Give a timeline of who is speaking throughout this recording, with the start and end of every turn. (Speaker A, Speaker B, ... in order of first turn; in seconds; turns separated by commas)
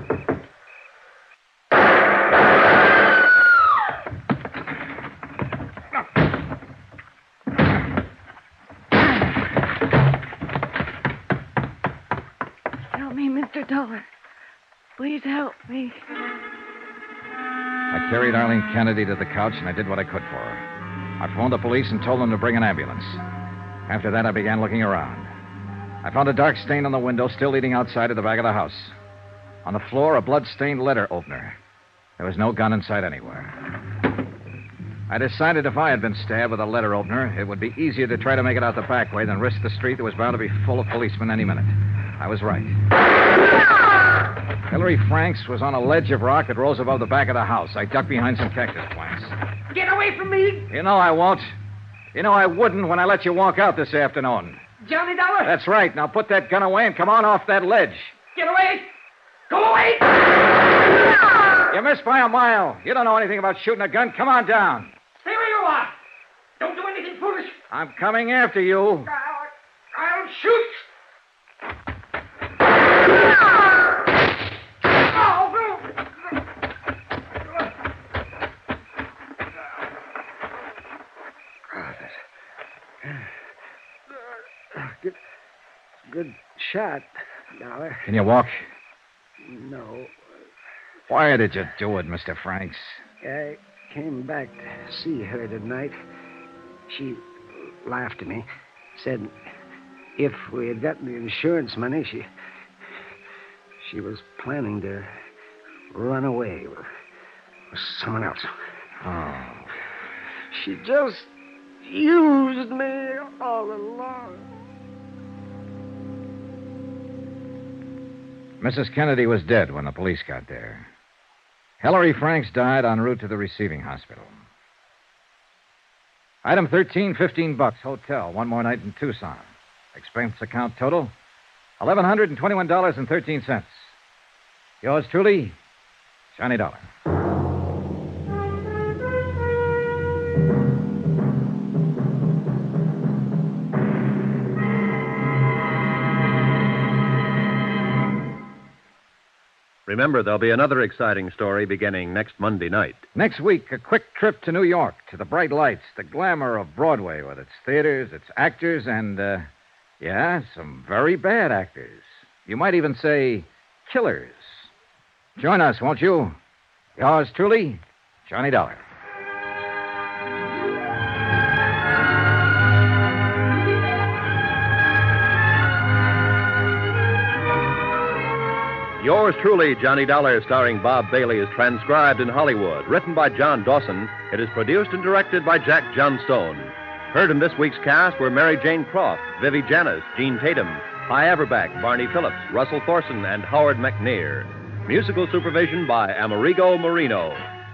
Speaker A: 12.9-14.1, Speaker A: 15.0-16.0, Speaker B: 17.9-20.6, Speaker B: 21.2-23.2, Speaker B: 23.9-25.3, Speaker B: 26.0-28.9, Speaker B: 29.6-31.6, Speaker B: 32.2-33.5, Speaker B: 35.1-42.8, Speaker B: 44.7-49.4, Speaker A: 49.7-50.7, Speaker B: 50.7-51.5, Speaker B: 52.1-54.6, Speaker A: 54.9-55.5, Speaker B: 55.4-58.4, Speaker A: 58.4-58.9, Speaker A: 59.5-60.1, Speaker B: 61.7-64.9, Speaker A: 65.2-65.9, Speaker A: 66.6-67.6, Speaker B: 67.7-69.1, Speaker A: 69.2-70.8, Speaker A: 75.2-75.9, Speaker C: 81.7-82.2, Speaker C: 83.0-83.3, Speaker C: 84.3-85.2, Speaker C: 86.1-88.1, Speaker B: 88.1-88.7, Speaker C: 89.4-90.2, Speaker B: 91.1-93.0, Speaker C: 93.2-96.0, Speaker C: 96.9-99.3, Speaker C: 100.2-102.3, Speaker C: 103.8-105.1, Speaker C: 105.9-106.9, Speaker C: 107.7-108.5, Speaker B: 109.0-109.7, Speaker C: 110.5-114.5, Speaker B: 118.6-120.9, Speaker B: 121.8-124.3, Speaker B: 126.4-131.1, Speaker B: 131.8-133.9, Speaker B: 134.8-135.6, Speaker B: 136.3-136.8, Speaker D: 149.9-153.1, Speaker B: 153.2-159.5, Speaker B: 160.0-164.7, Speaker B: 165.4-166.3, Speaker B: 167.0-168.8, Speaker D: 179.0-197.5